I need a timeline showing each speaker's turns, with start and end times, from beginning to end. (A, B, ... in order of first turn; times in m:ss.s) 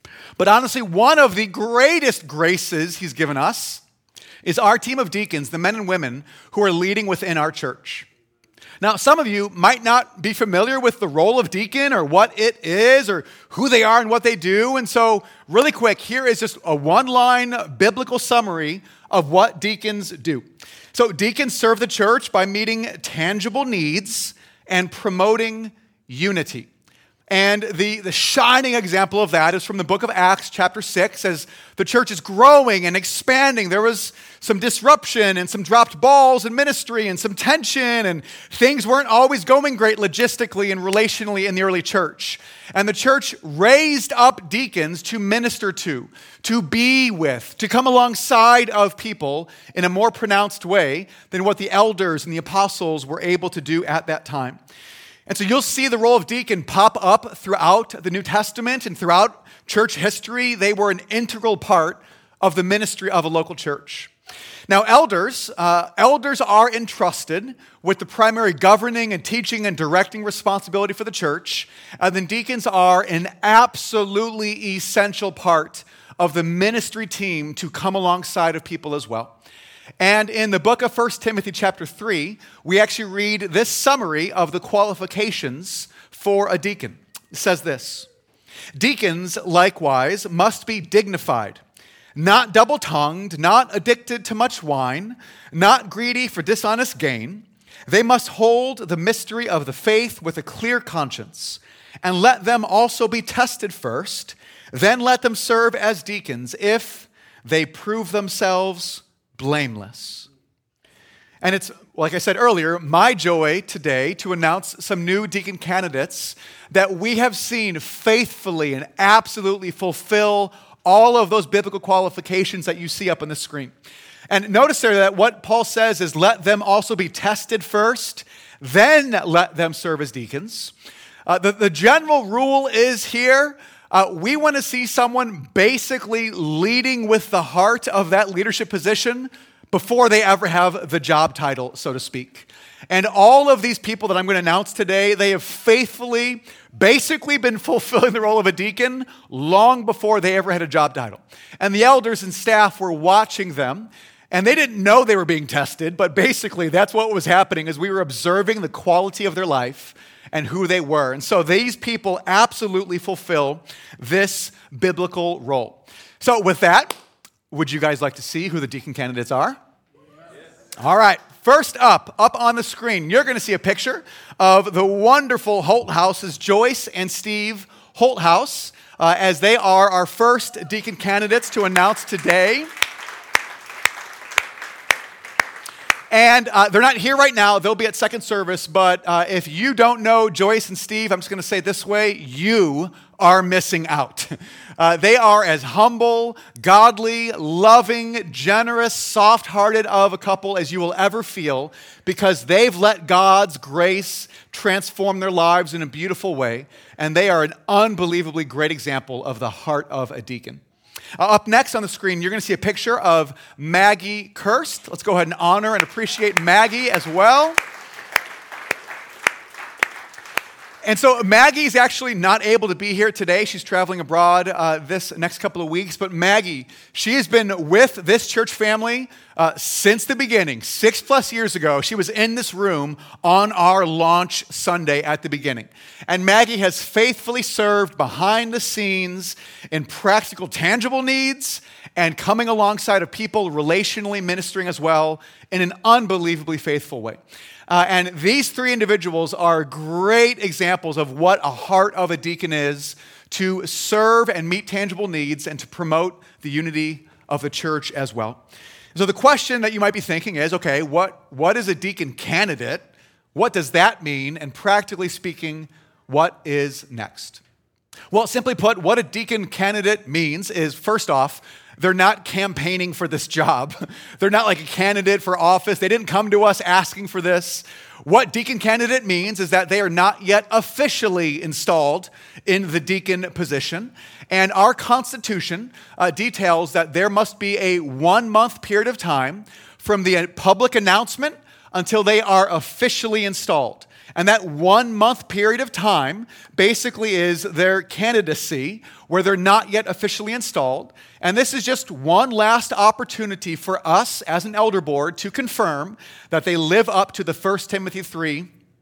0:00.4-0:03.8 A
0:04.4-0:08.1 A
0:08.8-0:26.7 A
0:27.3-0:54.6 A
0:55.3-1:04.1 A
1:04.7-1:19.4 A
1:20.0-1:28.1 A
1:28.8-1:31.6 A
1:32.2-1:50.3 A
1:51.4-2:03.7 A
2:04.3-2:10.7 A
2:11.2-2:47.0 A
2:47.5-2:49.6 A
2:50.8-3:02.7 A
3:06.1-3:30.6 A
3:31.2-3:37.6 A
3:40.8-4:18.4 A
4:18.9-4:27.4 A
4:28.1-5:08.5 A